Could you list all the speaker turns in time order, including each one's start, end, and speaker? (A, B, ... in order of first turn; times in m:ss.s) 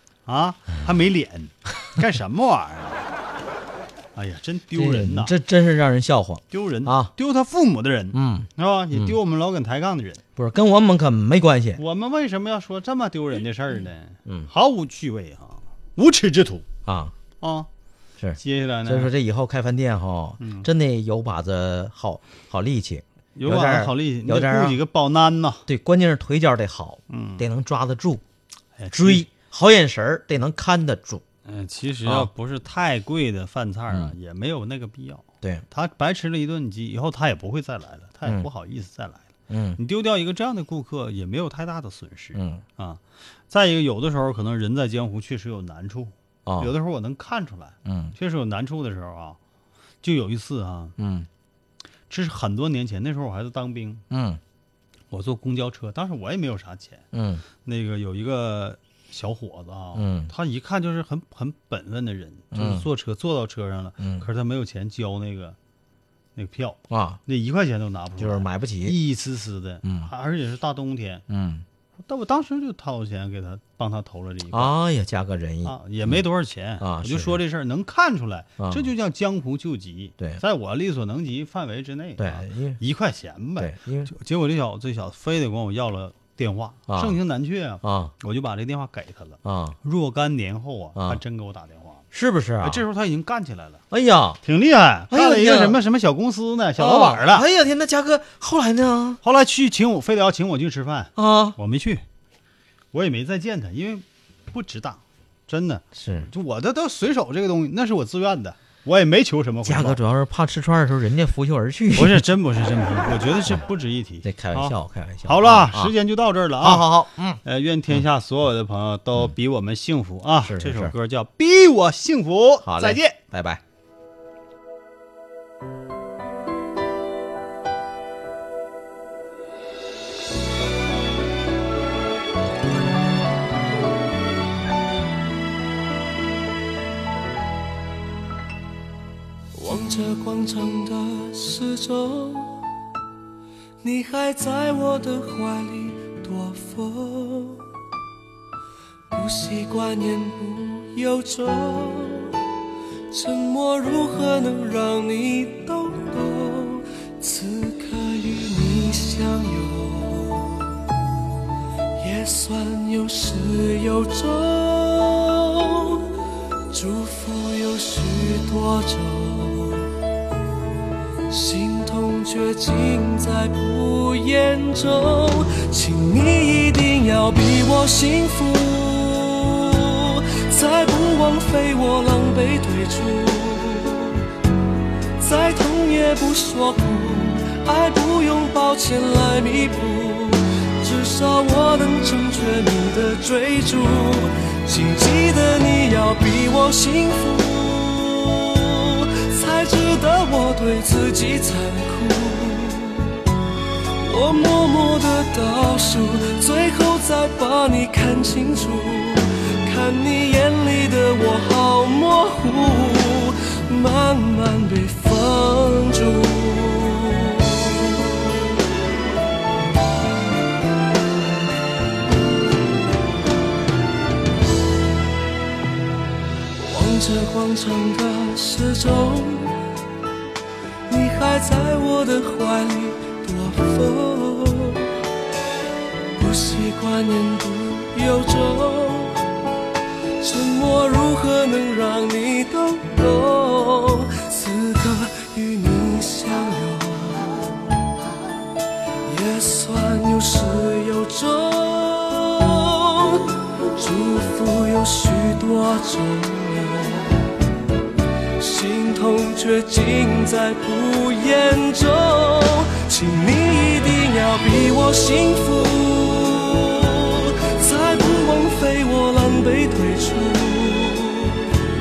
0:00.2-0:03.0 A
0:04.1-0:05.3 A
0:04.7-0:07.1 B
0:06.5-0:10.2 A
0:08.1-0:09.2 B
0:10.4-0:11.8 B
0:11.8-0:16.7 A
0:16.8-0:17.1 B
0:17.4-0:17.7 A
0:18.2-0:24.8 B
0:18.4-0:19.1 A
0:20.4-0:20.7 A
0:23.4-0:25.6 A
0:25.7-0:28.2 B
0:27.1-0:27.4 A
0:28.8-0:29.3 A
0:28.9-0:31.2 B
0:31.4-0:39.2 A
0:32.0-0:32.3 B
0:39.5-0:39.8 B
0:39.8-0:49.4 A
0:42.3-0:42.6 B
0:46.4-0:46.7 B
0:47.8-0:48.1 B
0:50.0-0:51.0 A
0:51.0-0:51.3 B
0:52.1-0:54.0 A
0:54.1-0:54.4 B
0:55.1-0:57.0 A
0:57.1-0:57.4 B
0:57.6-1:05.6 A
0:59.9-1:00.3 B
1:02.5-1:02.8 B
1:04.0-1:04.2 B
1:06.4-1:11.2 A
1:06.9-1:07.2 B
1:08.2-1:09.0 B
1:09.8-1:10.1 B
1:11.3-1:11.6 B
1:12.0-1:14.7 A
1:14.5-1:16.2 B
1:15.6-1:32.0 A
1:16.8-1:17.4 B
1:18.6-1:18.9 B
1:22.2-1:22.8 B
1:23.6-1:24.1 B
1:26.9-1:27.2 B
1:27.8-1:28.1 B
1:29.4-1:29.8 B
1:32.1-1:32.8 B
1:32.6-1:33.8 A
1:33.9-1:34.4 B
1:34.4-1:37.4 A
1:35.1-1:35.8 B
1:36.8-1:39.2 B
1:39.2-1:42.0 A
1:41.2-1:41.6 B
1:42.9-1:50.0 A
1:45.9-1:46.3 B
1:49.6-1:52.2 B
1:51.9-2:03.2 A
1:54.2-1:55.9 B
1:56.6-1:57.4 B
2:00.4-2:00.9 B
2:02.6-2:03.6 B
2:19.5-2:22.7 C
2:23.8-2:27.7 C
2:29.1-2:32.5 C
2:33.1-2:40.8 C
2:42.0-2:46.2 C
2:46.7-2:49.9 C
2:51.3-3:04.3 C
3:05.2-3:23.4 C
3:24.0-3:38.0 C
3:46.6-3:49.7 C
3:50.9-3:55.0 C
3:56.2-3:59.3 C
4:00.2-4:07.8 C
4:09.0-4:17.4 C
4:18.4-4:31.6 C